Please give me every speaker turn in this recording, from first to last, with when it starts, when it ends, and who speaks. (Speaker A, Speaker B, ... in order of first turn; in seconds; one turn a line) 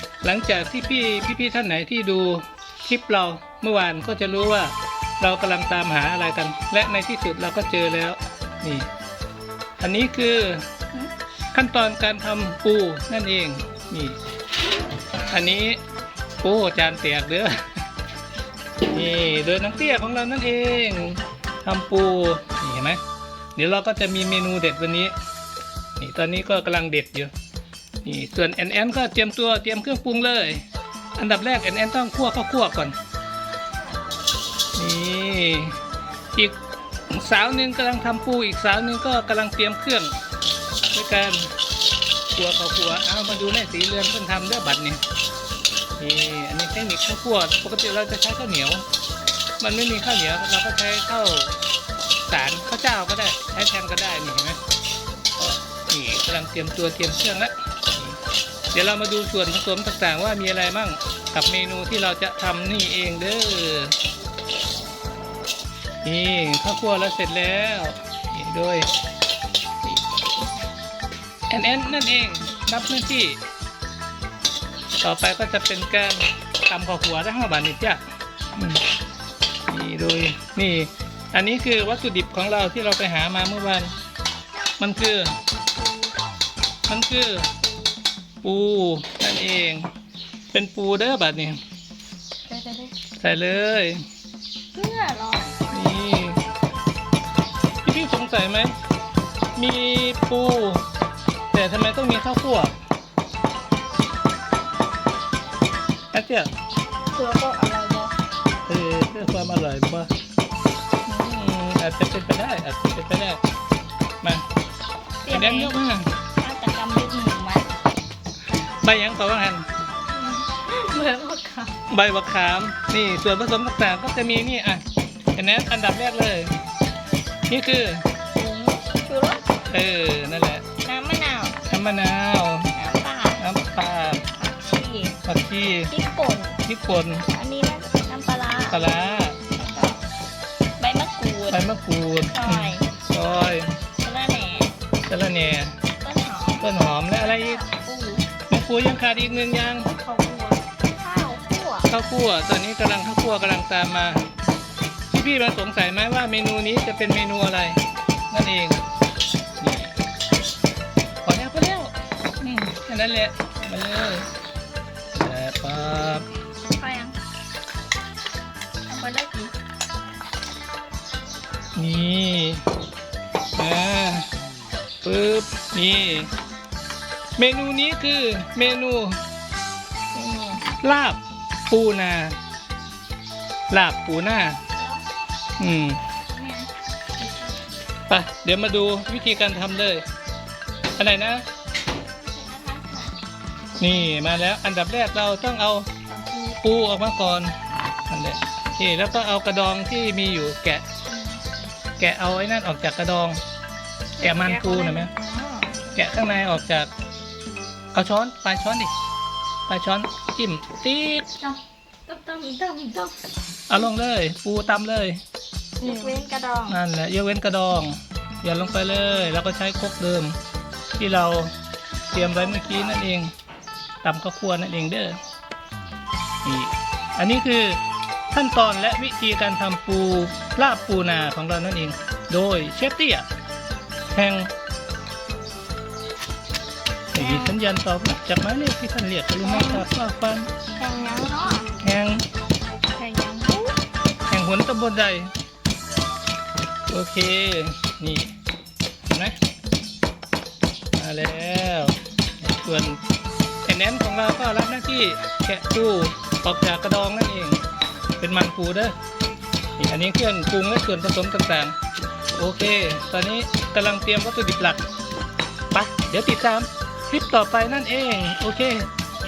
Speaker A: 0.2-8.9
Speaker A: 9.8-10.7
Speaker A: 11.5-14.2
Speaker A: 15.3-15.8
Speaker A: 16.4-17.5
Speaker A: 18.9-23.0
Speaker A: 23.6-25.1
Speaker A: 26.0-27.3
Speaker A: 28.0-30.6
Speaker A: 31.2-32.9
Speaker A: 34.8-35.8
Speaker A: 37.1-40.1
Speaker A: 40.9-41.5
Speaker A: 42.3-45.0
Speaker A: 46.0-48.8
Speaker A: 49.6-51.5
Speaker A: 52.3-54.6
Speaker A: 55.4-58.2
Speaker A: 58.7-64.0
Speaker A: 66.0-68.9
Speaker A: 71.5-73.4
Speaker A: 75.0-78.0
Speaker A: 78.5-78.8
Speaker A: 79.7-83.9
Speaker A: 84.8-85.3
Speaker A: 86.9-87.5
Speaker B: 87.6-87.9
Speaker A: 88.4-89.9
Speaker A: 90.5-91.6
Speaker B: 92.5-92.9
Speaker A: 93.2-94.0
Speaker B: 94.7-95.6
Speaker A: 95.7-96.4
Speaker A: 97.8-98.8
Speaker A: 99.5-100.8
Speaker A: 101.5-102.7
Speaker A: 106.1-106.5
Speaker B: 107.1-108.1
Speaker A: 108.7-110.1
Speaker A: 111.0-113.4
Speaker B: 115.2-115.8
Speaker A: 115.3-116.1
Speaker B: 116.4-117.7
Speaker A: 118.8-119.7
Speaker B: 120.1-121.8
Speaker A: 121.9-124.8
Speaker A: 125.3-126.5
Speaker A: 127.5-128.1
Speaker B: 128.3-129.4
Speaker A: 129.7-130.7
Speaker B: 130.8-131.6
Speaker A: 131.7-132.7
Speaker B: 132.8-133.4
Speaker A: 133.4-134.2
Speaker B: 134.3-135.2
Speaker A: 135.2-135.9
Speaker B: 135.9-136.6
Speaker A: 136.6-137.2
Speaker B: 137.3-138.9
Speaker A: 138.7-139.4
Speaker B: 139.6-140.0
Speaker B: 140.8-141.6
Speaker A: 141.5-143.7
Speaker B: 142.3-142.9
Speaker B: 144.0-144.7
Speaker A: 145.1-145.8
Speaker B: 146.0-148.2
Speaker A: 146.6-147.6
Speaker A: 148.5-149.9
Speaker B: 149.9-151.9
Speaker A: 151.9-154.3
Speaker A: 155.1-158.8
Speaker A: 159.6-159.9
Speaker A: 161.2-164.3
Speaker A: 165.1-166.3
Speaker B: 166.7-167.2
Speaker B: 168.9-169.5
Speaker A: 171.8-172.6
Speaker A: 173.6-174.3
Speaker A: 175.0-176.3
Speaker A: 177.4-179.2
Speaker B: 180.1-180.7
Speaker A: 180.8-182.4
Speaker A: 183.7-184.6
Speaker A: 185.6-186.0
Speaker B: 186.3-187.3
Speaker A: 188.1-190.0
Speaker A: 191.0-191.4
Speaker B: 192.2-193.2
Speaker A: 193.8-195.9
Speaker B: 196.1-196.5
Speaker A: 196.6-197.5
Speaker A: 198.1-200.8
Speaker B: 201.1-201.4
Speaker A: 202.0-203.4
Speaker A: 204.2-205.1
Speaker B: 204.2-205.9
Speaker A: 205.9-206.9
Speaker A: 207.9-208.9
Speaker A: 209.7-211.3
Speaker B: 211.4-213.3
Speaker A: 213.7-215.2
Speaker B: 215.8-216.8
Speaker A: 216.7-220.4
Speaker A: 221.0-221.5
Speaker B: 222.1-222.9
Speaker A: 222.1-223.3
Speaker A: 224.0-225.2
Speaker A: 226.4-227.8
Speaker A: 228.3-233.2
Speaker A: 234.1-234.5
Speaker A: 237.1-240.5
Speaker B: 237.2-237.6
Speaker B: 239.4-239.9
Speaker B: 240.8-241.7
Speaker A: 241.8-242.2
Speaker B: 242.9-243.8
Speaker A: 244.3-245.3
Speaker A: 246.9-248.3
Speaker A: 249.1-249.4
Speaker A: 250.9-253.0
Speaker A: 253.7-257.6
Speaker A: 258.2-258.9
Speaker A: 259.8-261.7
Speaker A: 262.4-264.8
Speaker A: 265.7-268.9